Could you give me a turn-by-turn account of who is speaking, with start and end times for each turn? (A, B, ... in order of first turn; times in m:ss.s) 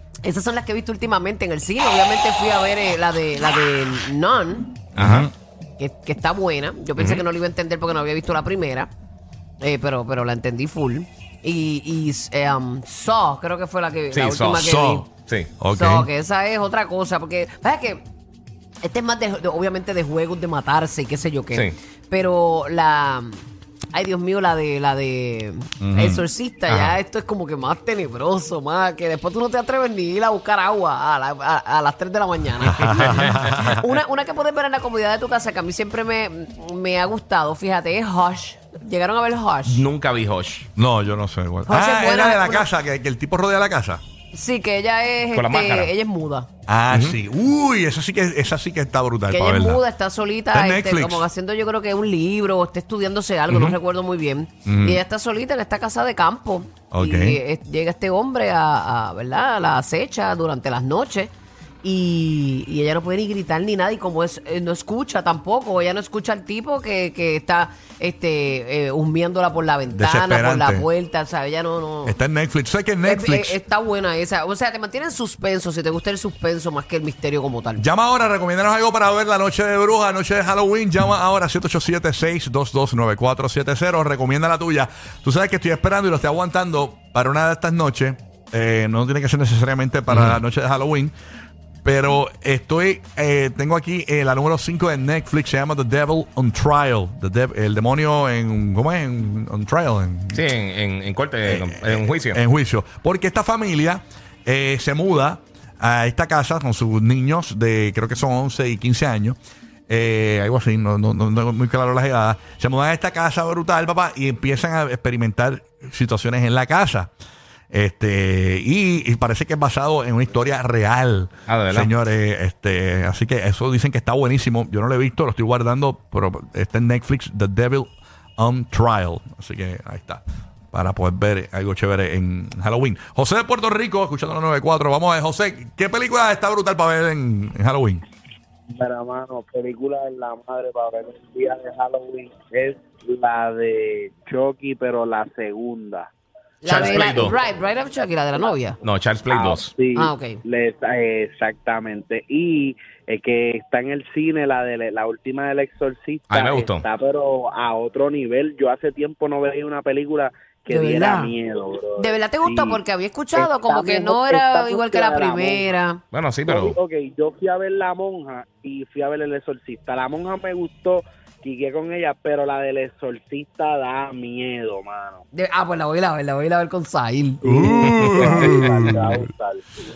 0:00.2-0:04.8 A
0:04.9-0:05.3 B
0:05.0-0:05.3 C
0:05.8-0:08.9 A
0:07.0-0:07.2 C
0:09.6-0:15.1 A
0:14.1-0:14.7 C
0:14.6-0:15.1 B
0:15.6-0:16.1 B
0:15.7-0:18.0 A
0:18.8-0:39.8 A
0:25.8-0:26.2 B
0:32.6-0:33.8 B
0:39.6-0:40.7 C
0:40.8-0:44.0 B
0:41.7-0:42.7 A
0:44.3-0:46.5 A
0:45.3-0:45.9 C
0:46.7-0:49.8 B
0:46.9-0:47.2 C
0:49.3-1:01.3 A
0:50.5-0:51.2 B
0:53.5-0:53.8 C
0:54.6-0:55.0 B
0:56.9-0:57.4 B
1:01.8-1:12.2 A
1:09.9-1:10.9 B
1:12.0-1:13.6 B
1:13.0-1:17.8 A
1:17.8-1:31.1 B
1:30.1-1:30.4 C
1:31.8-1:40.4 B
1:40.3-1:42.4 C
1:41.4-1:49.4 B
1:49.9-1:57.1 B
1:57.7-2:18.0 B
2:01.5-2:01.9 C
2:18.7-2:26.1 D
2:26.6-2:28.8 A
2:26.6-2:27.3 C
2:26.8-2:27.4 D
2:28.8-2:29.7 C
2:29.3-2:42.8 D
2:30.0-2:30.4 A
2:36.3-2:36.8 C
2:40.7-2:41.3 A
2:42.0-2:46.0 A
2:43.3-2:45.7 D
2:46.1-2:46.8 C
2:46.5-2:55.2 D
2:55.3-2:58.7 A
2:57.4-2:59.6 D
2:57.5-2:59.1 B